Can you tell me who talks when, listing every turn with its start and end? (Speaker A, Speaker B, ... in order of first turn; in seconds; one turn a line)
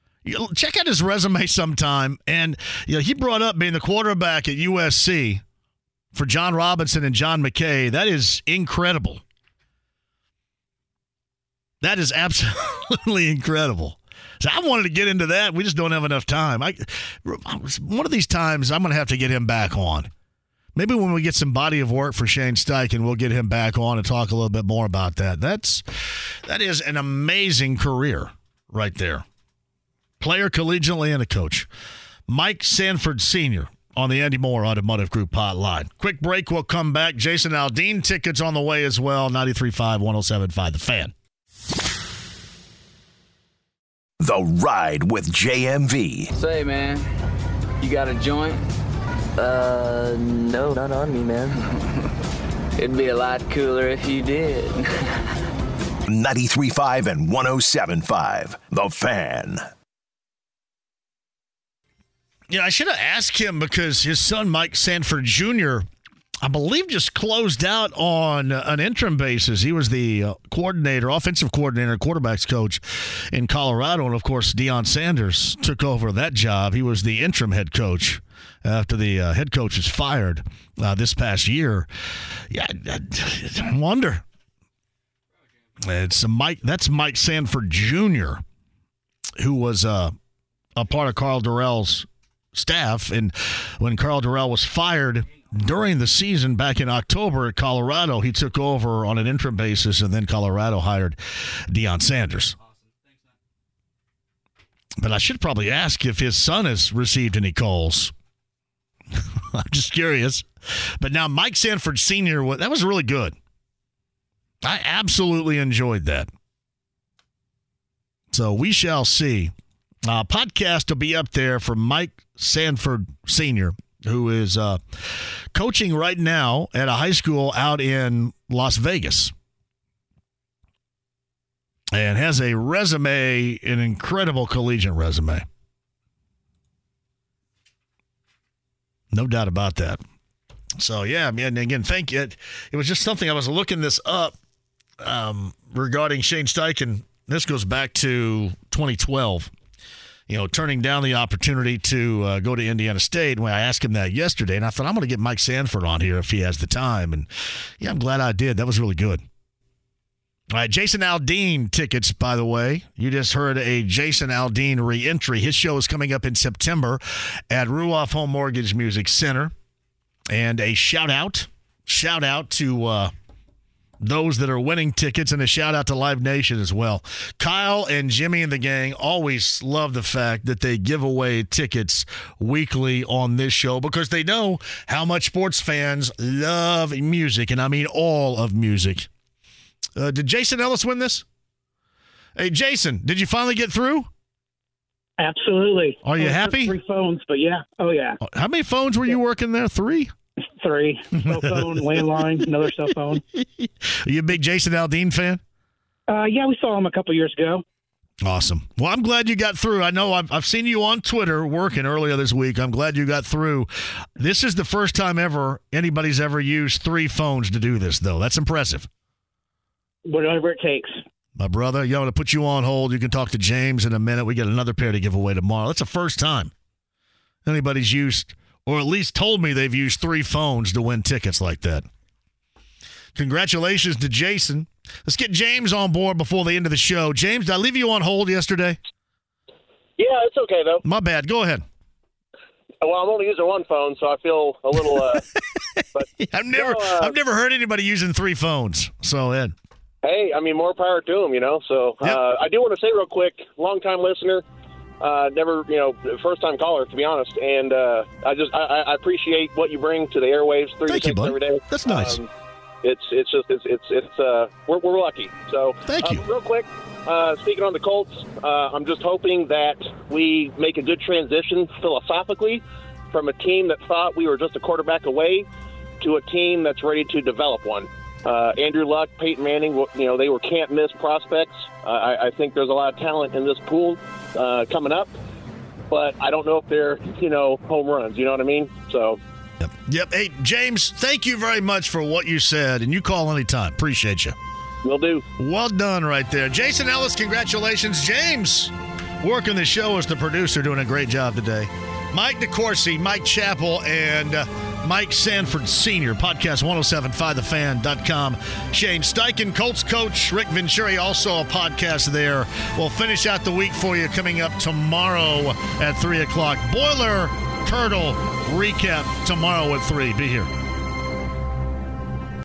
Speaker A: 0.2-5.4
Speaker A: 6.1-9.2
Speaker A: 11.8-20.1
Speaker A: 20.7-29.2
Speaker A: 30.2-31.7
Speaker A: 32.3-41.1
Speaker B: 44.2-46.3
Speaker C: 46.4-47.1
Speaker C: 47.8-48.6
Speaker C: 49.4-51.6
Speaker C: 52.8-55.0
Speaker B: 56.1-59.6
Speaker A: 62.5-65.8
Speaker A: 66.4-81.9
Speaker A: 82.5-84.2
Speaker A: 85.8-88.4
Speaker A: 89.4-90.1
Speaker A: 90.8-101.2
Speaker A: 101.7-102.6
Speaker A: 105.0-108.1
Speaker A: 109.1-113.3
Speaker A: 114.6-116.3
Speaker A: 118.3-119.5
Speaker A: 120.0-129.3
Speaker A: 131.9-135.4
Speaker A: 139.1-140.0
Speaker A: 140.8-144.3
Speaker A: 145.0-149.5
Speaker A: 150.3-157.3
Speaker A: 157.8-159.2
Speaker A: 160.5-169.5
Speaker A: 170.3-173.1
Speaker A: 174.0-189.1
Speaker A: 189.9-191.2
Speaker A: 192.3-194.1
Speaker D: 195.2-198.2
Speaker A: 196.0-196.8
Speaker A: 198.2-200.1
Speaker D: 200.4-203.2
Speaker A: 201.2-202.0
Speaker A: 203.3-205.4
Speaker D: 206.1-207.6
Speaker A: 208.2-218.9
Speaker D: 220.0-221.0
Speaker A: 221.4-226.5
Speaker A: 227.4-231.8
Speaker A: 233.2-238.8
Speaker E: 240.0-240.8
Speaker A: 240.8-241.6
Speaker E: 242.8-245.2
Speaker E: 245.9-247.1
Speaker A: 246.2-249.5
Speaker E: 250.0-254.4
Speaker E: 255.0-262.3
Speaker A: 260.9-262.2
Speaker E: 262.8-275.5
Speaker A: 265.9-266.2
Speaker E: 276.0-285.1
Speaker E: 285.9-289.2
Speaker A: 289.6-294.4
Speaker E: 294.8-295.2
Speaker A: 295.4-320.5